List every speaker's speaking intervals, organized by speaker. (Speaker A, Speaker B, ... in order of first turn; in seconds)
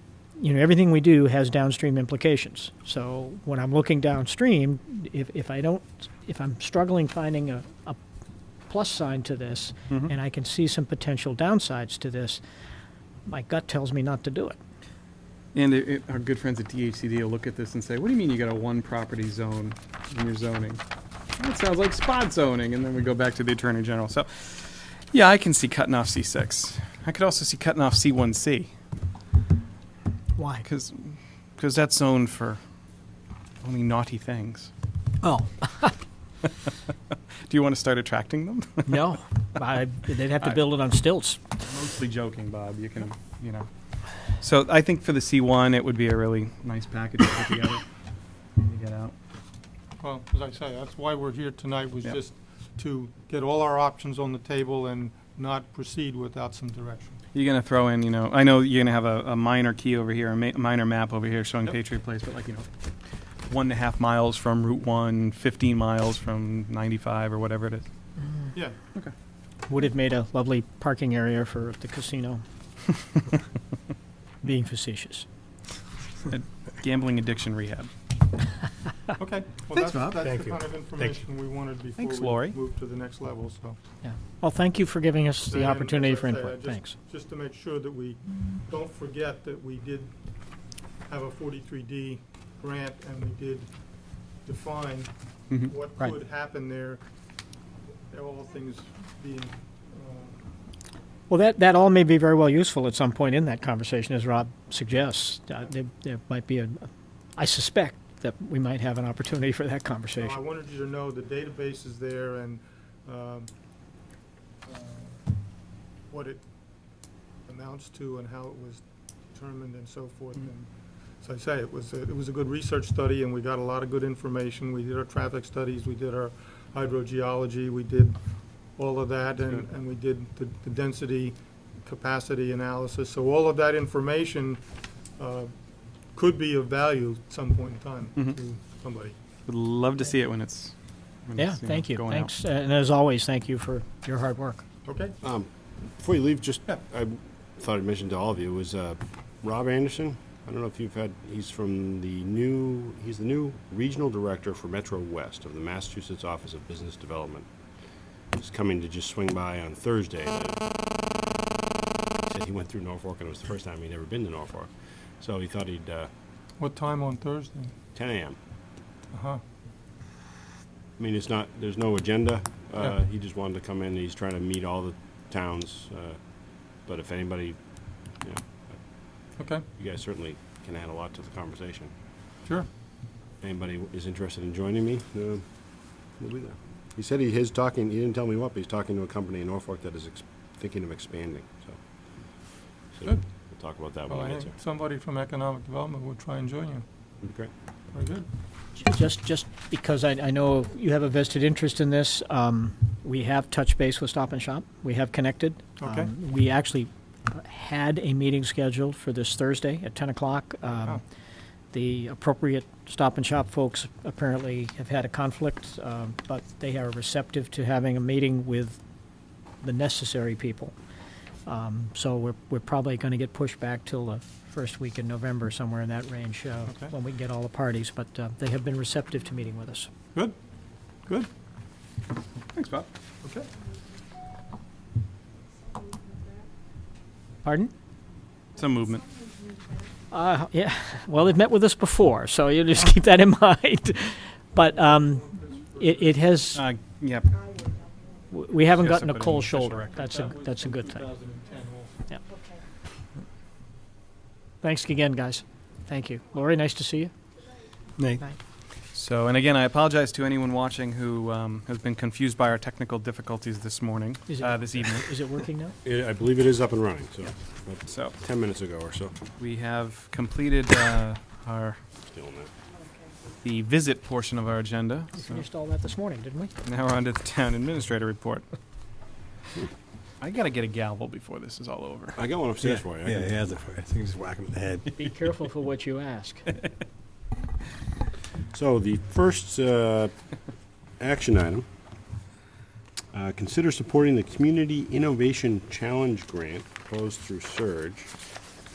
Speaker A: 0.4-8.0, 8.7-12.4, 13.2-14.6, 30.4-30.6, 35.2-36.0, 38.9-41.4, 69.7-72.4, 74.4-75.2, 84.0-86.9, 101.3-110.4, 141.3-144.6, 198.8-211.0, 211.7-218.8, 219.6-220.7, 221.4-229.9, 237.4-237.7, 240.1-246.6, 248.3-251.1, 254.6-257.1, 264.3-265.8, 275.2-276.5, 284.9-286.5
Speaker B: 15.5-20.8, 21.4-28.7, 30.6-32.6, 33.6-34.7, 37.4-38.9, 41.6-47.8, 48.5-49.1, 57.3-62.7, 63.5-67.8, 76.2-77.9, 82.0-82.6, 139.5-142.3, 232.5-232.9, 238.5-239.2, 246.5-247.4, 248.8-250.1, 258.9-265.1, 267.9-268.1, 269.4-271.8, 273.4-275.4, 276.6-278.4, 280.2-282.2
Speaker C: 50.0-57.2, 79.2-83.8, 85.5-90.1, 91.1-93.7, 94.4-97.0, 98.1-100.4, 110.2-113.5, 114.7-115.2, 116.1-116.4, 117.5-120.7, 121.2-128.2, 128.7-134.6, 135.2-135.5, 136.1-139.1, 144.8-145.2, 166.6-167.7, 169.1-169.4, 179.4-179.6, 194.1-196.8, 197.9-198.3, 205.8-206.1, 233.2-233.5, 244.9-246.2, 250.0-252.0
Speaker D: 79.7-81.1, 282.6-284.9
Speaker E: 145.2-157.5, 158.3-160.6, 162.2-166.1, 167.9-168.4, 171.0-179.0, 179.7-181.9, 183.4-185.5, 186.1-191.8, 192.9-194.6, 197.2-197.5, 265.8-269.1, 272.1-272.5, 282.1-283.4, 288.5-290.1, 291.0-291.6, 293.1-298.1